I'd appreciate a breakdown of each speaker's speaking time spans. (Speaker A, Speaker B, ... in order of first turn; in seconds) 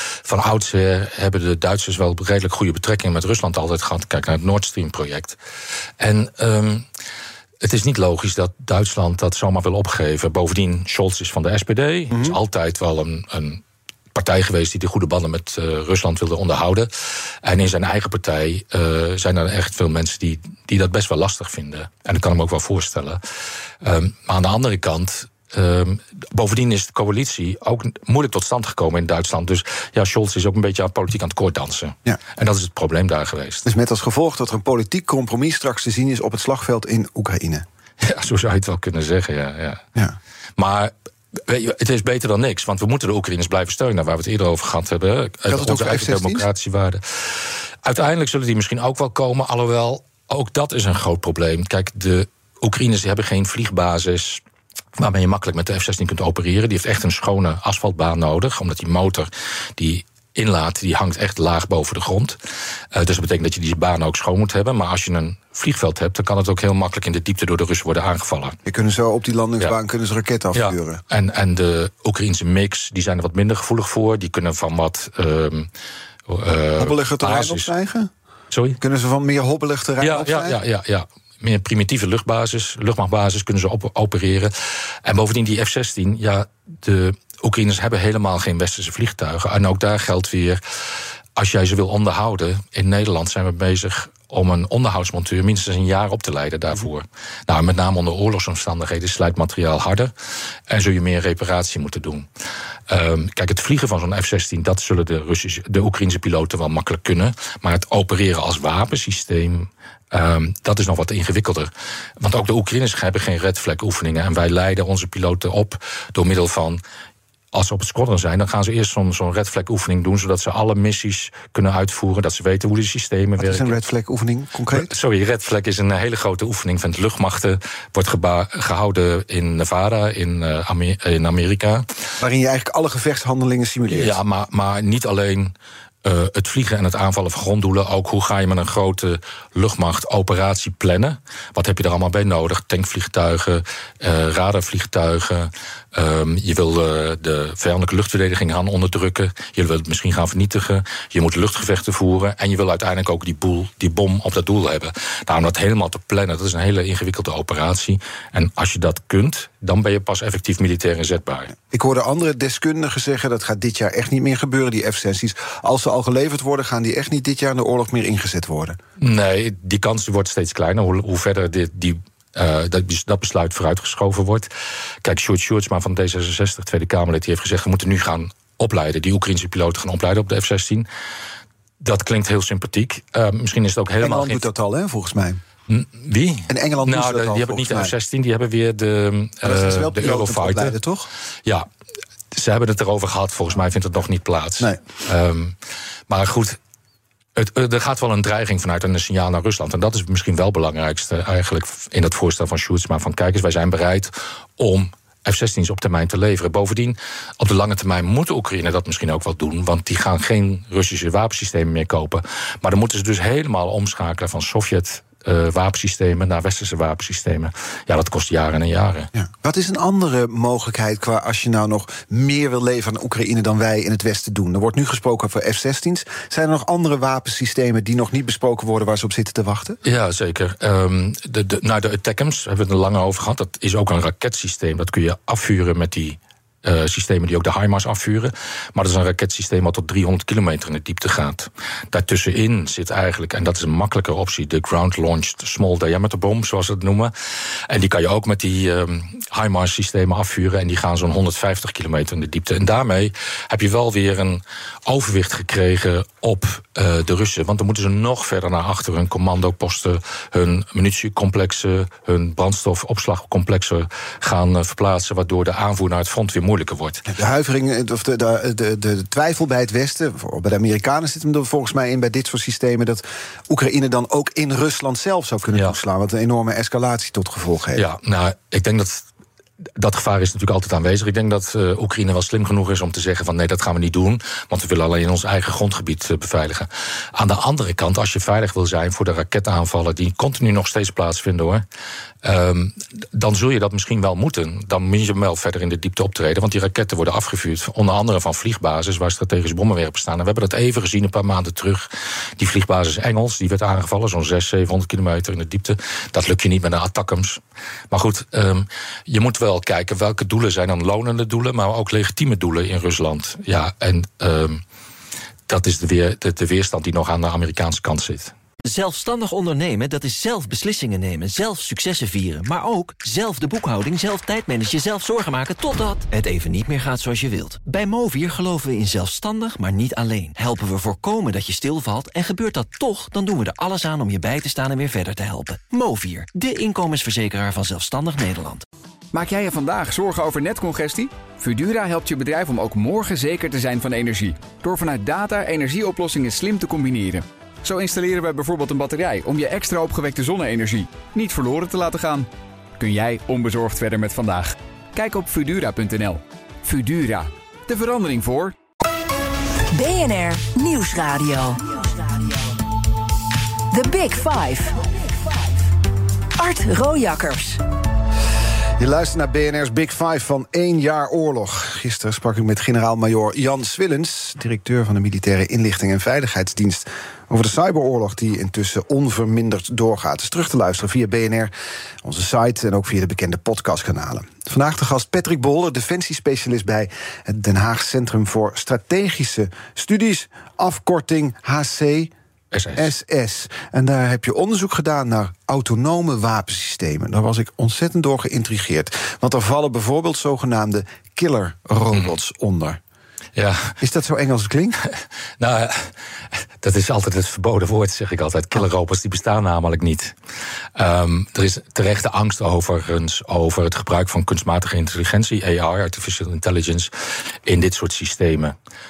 Speaker A: 0.2-5.4, 6.0-6.9, 7.6-13.6, 14.1-16.9, 17.4-23.2, 23.8-33.7, 38.0-39.9, 40.6-54.4, 55.0-62.4, 62.9-68.6, 70.5-75.7, 76.3-77.7, 78.5-78.8, 80.0-84.5, 85.0-90.6, 91.4-100.1, 100.7-102.3, 102.9-116.8, 117.5-123.8, 124.7-131.9, 133.9-161.5, 169.0-174.5, 175.0-180.9, 181.8-184.4, 185.7-190.8, 192.3-195.6, 196.1-196.6, 197.4-219.1, 229.8-247.1, 247.7-267.1, 277.8-279.1, 279.8-291.6, 292.2-314.6, 315.5-318.3, 392.5-392.9, 403.4-403.8, 404.9-405.9, 406.6-410.1, 410.8-416.9, 417.4-418.6
Speaker B: 12.1-12.4, 33.6-37.6, 45.5-46.5, 68.7-71.0, 76.8-78.1, 78.8-80.6, 123.4-124.9, 132.2-134.2, 161.7-168.8, 184.0-185.4, 186.5-187.9, 189.4-191.1, 219.2-229.8, 267.1-277.9, 368.8-381.5, 382.0-392.1, 392.8-402.8, 403.8-404.8
Speaker C: 318.7-338.6
Speaker D: 339.1-352.3, 352.8-358.6
Speaker E: 359.7-362.6, 363.7-365.7, 366.4-367.6